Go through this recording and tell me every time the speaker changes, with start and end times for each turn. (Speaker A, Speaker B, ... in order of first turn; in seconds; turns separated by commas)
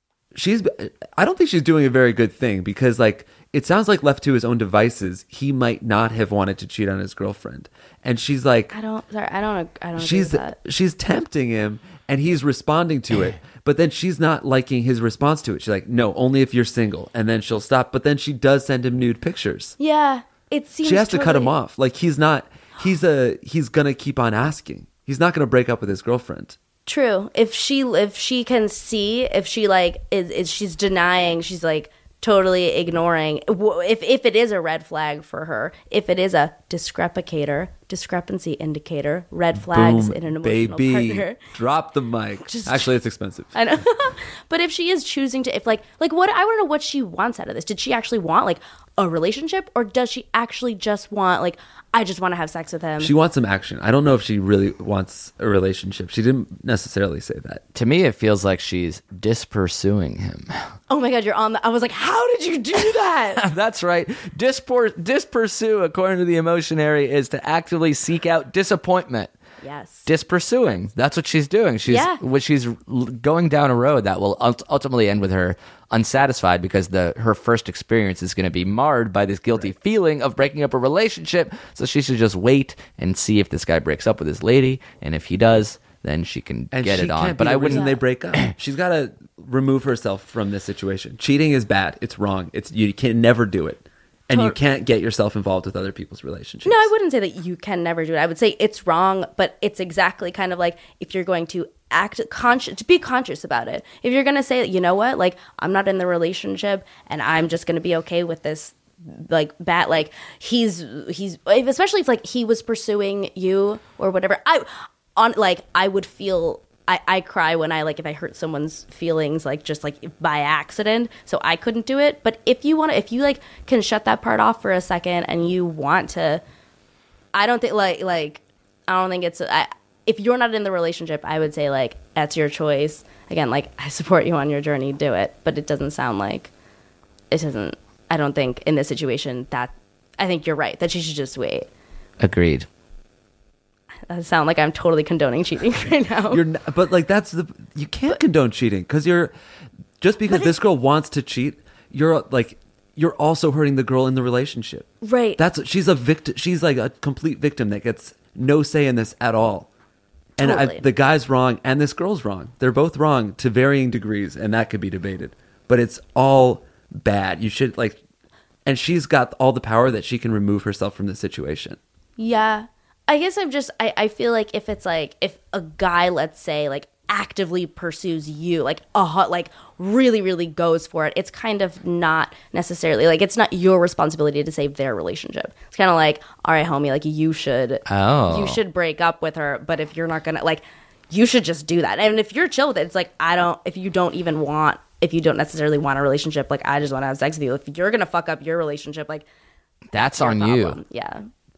Speaker A: 0.3-8.7, Speaker B: 8.7-10.6, Speaker A: 10.0-19.7, Speaker B: 19.8-21.5, Speaker A: 20.8-26.6, Speaker B: 26.9-41.4, Speaker A: 39.5-43.5, Speaker B: 42.5-42.9, Speaker B: 43.5-53.1, Speaker A: 53.0-57.6, Speaker C: 57.7-60.6, Speaker B: 60.9-63.4, Speaker C: 63.4-69.3, Speaker B: 69.6-70.1, Speaker C: 70.0-87.9, Speaker B: 71.8-72.2, Speaker A: 86.7-96.9, Speaker B: 87.7-88.0, Speaker B: 94.3-94.6, Speaker B: 96.6-126.4, Speaker B: 127.3-136.5, Speaker B: 137.3-141.7, Speaker C: 142.2-142.7, Speaker B: 144.1-146.4, Speaker A: 146.3-149.3, Speaker A: 150.0-159.7, Speaker B: 155.0-155.4, Speaker A: 160.4-168.0, Speaker B: 160.4-160.8, Speaker A: 168.7-171.8, Speaker B: 172.2-199.3, Speaker C: 187.9-188.6, Speaker C: 199.9-200.8, Speaker B: 200.1-201.3